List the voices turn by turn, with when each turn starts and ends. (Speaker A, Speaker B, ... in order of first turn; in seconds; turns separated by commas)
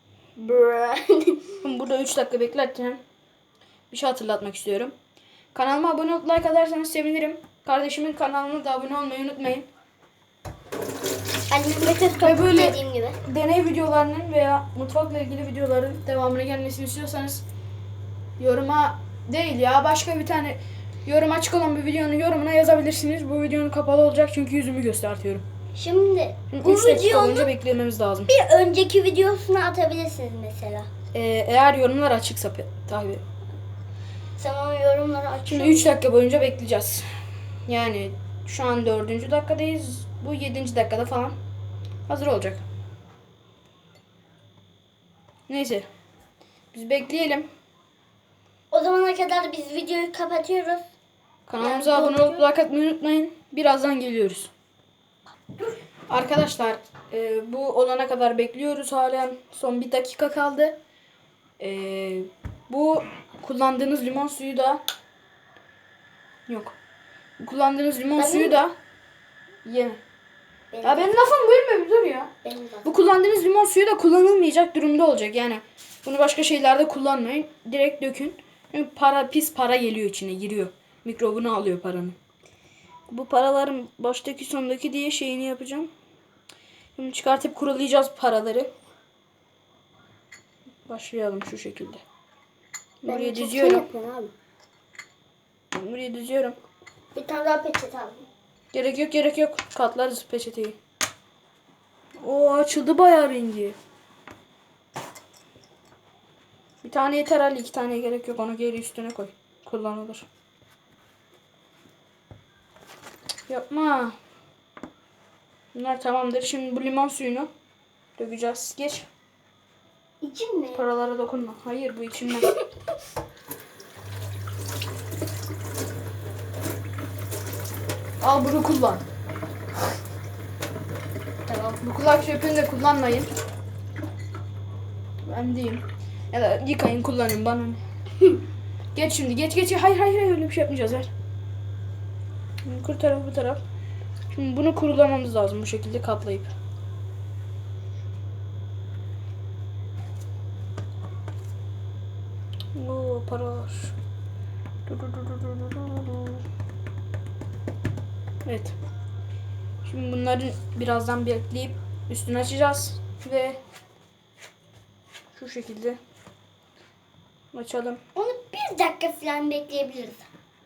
Speaker A: 0.4-1.6, Speaker B: 1.6-3.0, Speaker B: 3.9-4.9, Speaker B: 5.5-9.7, Speaker A: 11.5-13.2, Speaker B: 12.2-17.4, Speaker B: 18.4-25.4, Speaker A: 25.7-27.5, Speaker B: 26.5-28.3, Speaker A: 28.3-30.9, Speaker B: 31.1-33.2, Speaker A: 34.4-36.0, Speaker B: 35.5-37.1, Speaker B: 37.7-41.4, Speaker B: 42.1-42.6, Speaker B: 45.5-45.9, Speaker B: 46.7-47.5, Speaker A: 48.7-50.9, Speaker B: 51.5-54.5, Speaker A: 51.6-52.4, Speaker B: 56.1-60.8, Speaker B: 61.6-64.8, Speaker B: 66.5-66.8, Speaker B: 67.4-68.8, Speaker A: 68.2-68.6, Speaker B: 69.7-70.0, Speaker A: 70.7-71.2, Speaker B: 70.8-72.3, Speaker A: 72.4-72.9, Speaker B: 72.8-82.2, Speaker B: 83.1-85.9, Speaker B: 87.0-88.7, Speaker B: 90.9-92.0, Speaker B: 93.0-93.8, Speaker A: 93.1-94.3, Speaker B: 95.7-96.6, Speaker A: 97.1-98.2, Speaker B: 98.7-100.8, Speaker B: 102.2-103.8, Speaker B: 106.8-110.3, Speaker B: 113.5-114.2, Speaker B: 115.7-117.5, Speaker B: 118.2-119.1, Speaker A: 120.2-120.8, Speaker B: 120.8-122.5, Speaker B: 128.2-129.0, Speaker B: 131.5-133.3, Speaker B: 135.2-137.8, Speaker B: 138.9-141.1, Speaker B: 142.7-143.6, Speaker B: 144.3-146.5, Speaker B: 152.8-153.9, Speaker B: 154.9-156.4, Speaker B: 158.4-158.8, Speaker B: 159.8-163.6, Speaker B: 165.3-166.0, Speaker B: 167.5-168.0, Speaker A: 168.2-170.3